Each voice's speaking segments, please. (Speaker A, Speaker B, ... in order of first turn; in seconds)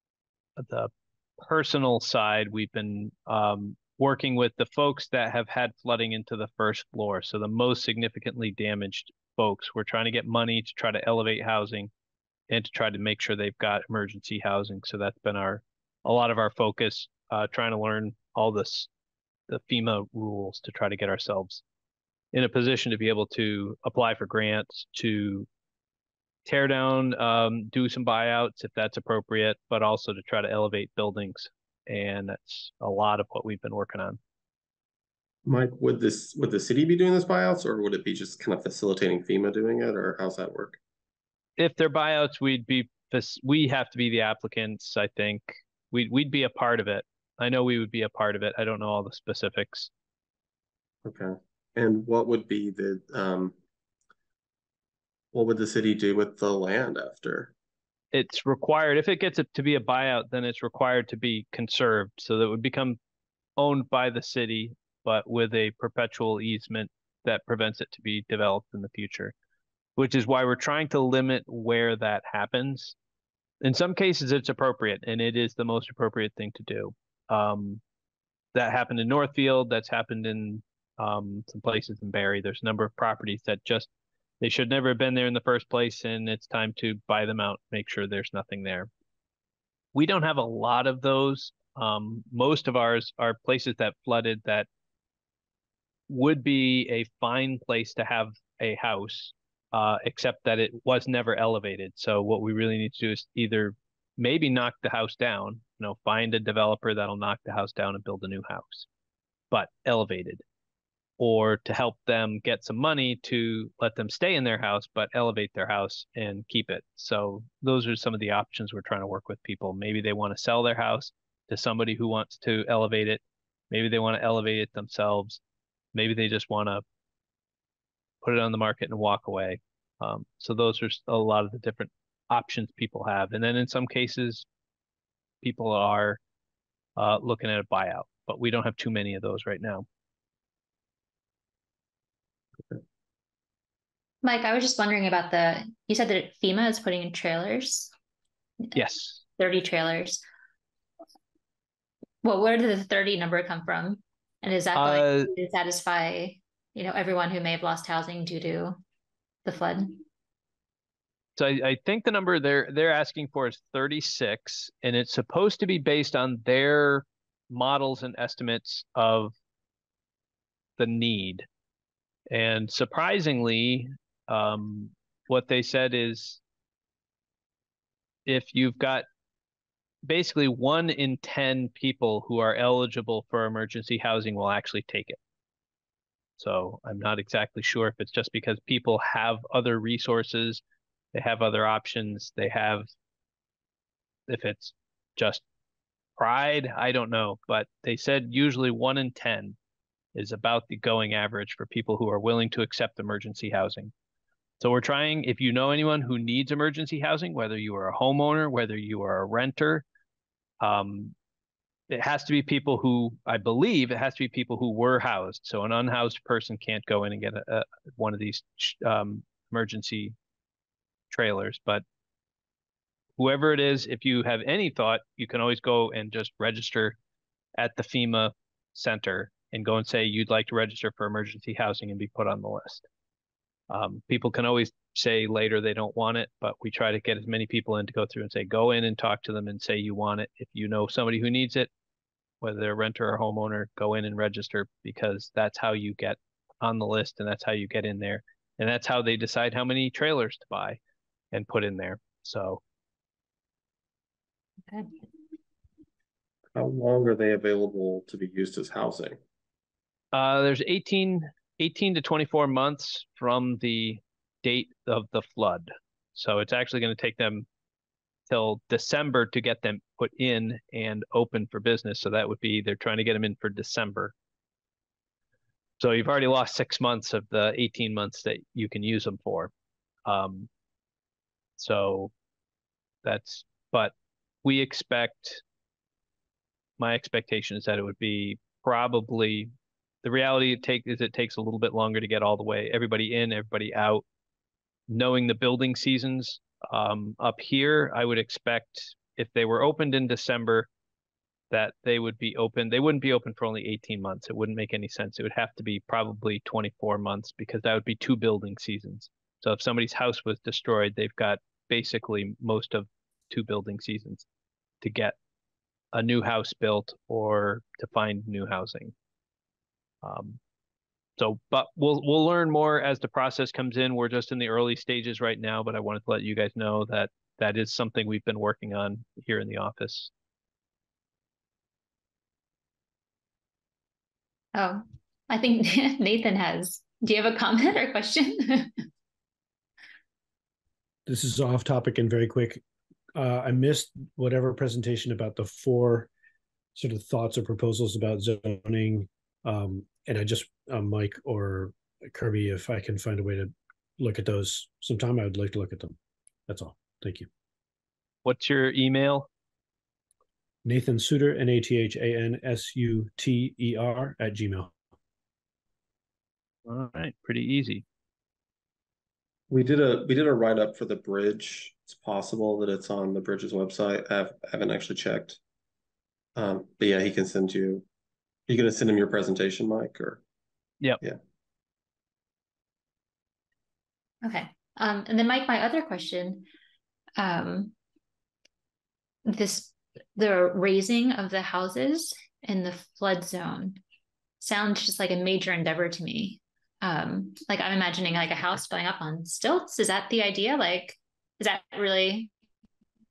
Speaker A: 0.6-11.9, 12.5-18.9, 19.5-21.6, 22.3-25.5, 26.5-34.2, 41.6-49.9, 58.1-63.0, 63.6-69.3, 70.0-73.0, 73.6-77.8, 78.5-83.9, 84.4-88.9, 89.9-94.7, 96.1-108.9, 109.5-110.4, 111.2-125.4, 125.9-126.8, 128.2-134.4, 135.4-136.2, 137.0-139.9, 148.8-149.2, 154.7-155.3, 161.4-169.3, 170.8-171.5, 172.3-176.4, 178.3-179.1, 180.1-185.2, 186.4-190.6, 191.1-192.9, 194.3-195.4, 196.2-199.6, 200.2-203.9, 204.6-209.8, 210.6-211.1, 211.9-220.2, 221.1-221.8, 223.2-227.0, 227.6-232.8, 233.7-241.7, 242.4-250.8, 251.3-252.6, 260.1-267.5, 268.3-274.1, 275.8-279.5, 280.1-280.5, 281.6-282.1, 283.0-285.4, 286.8-289.5, 290.0-294.0, 294.9-300.7, 301.5-314.3, 314.8-315.2, 315.9-318.9, 320.0-320.4, 321.2-330.1, 358.2-359.3, 366.7-367.8
Speaker B: 35.5-40.8, 51.0-53.5, 55.3-57.5, 256.6-259.2, 369.5-375.4, 376.4-377.9, 378.5-380.2
Speaker C: 144.2-147.9, 149.4-150.2, 152.2-158.8, 159.4-160.0, 334.6-338.8, 384.2-386.5, 387.2-387.7, 389.3-393.8, 394.4-402.3
Speaker D: 341.1-342.6, 343.2-346.1, 346.8-355.9, 356.5-357.3, 360.6-364.7